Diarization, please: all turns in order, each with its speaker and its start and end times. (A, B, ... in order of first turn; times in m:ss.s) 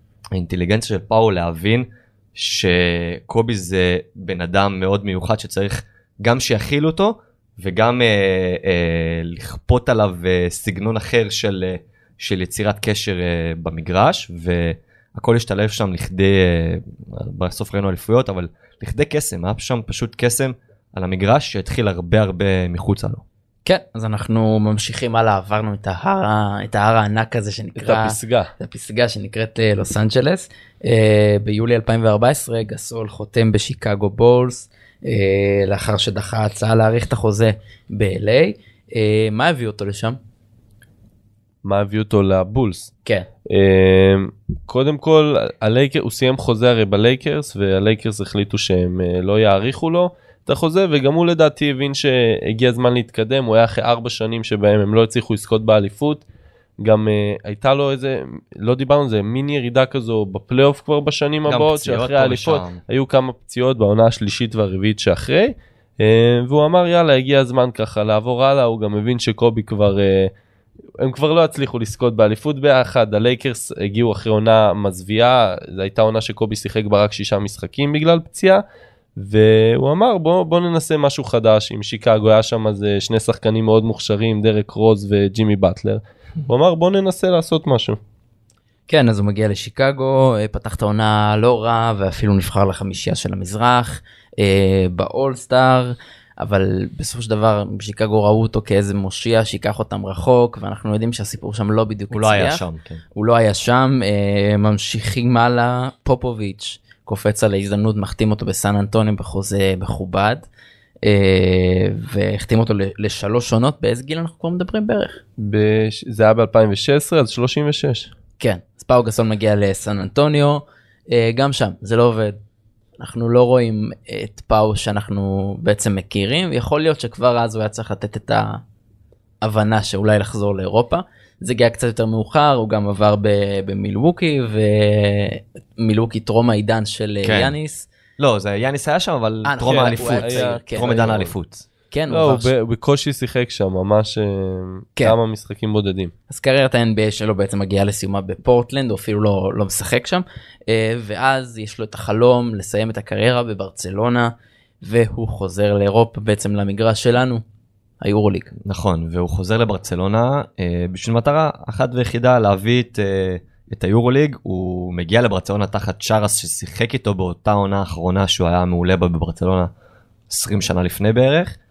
0:00.3-0:23.2 A
0:23.6-0:40.2 B
0:27.8-0:28.5 C
0:41.6-0:42.9 C
0:43.5-0:56.2 C
0:56.8-1:10.3 C
1:01.4-1:02.8 A
1:11.0-1:18.6 C
1:19.2-1:28.0 C
1:28.9-1:42.6 B
1:42.1-1:43.0 A
1:43.1-1:50.4 B
1:51.0-1:55.2 B
1:55.4-1:58.1 C
1:58.4-2:02.4 B
2:03.0-2:08.6 B
2:09.4-2:17.9 B
2:17.2-2:17.5 A
2:18.2-2:21.6 A
2:19.4-2:20.9 B
2:19.6-2:21.3 C
2:21.9-2:22.5 B
2:22.1-2:26.1 C
2:26.3-2:34.3 B
2:34.8-2:37.4 B
2:38.0-2:38.5 B
2:38.6-2:49.7 A
2:50.3-2:51.6 A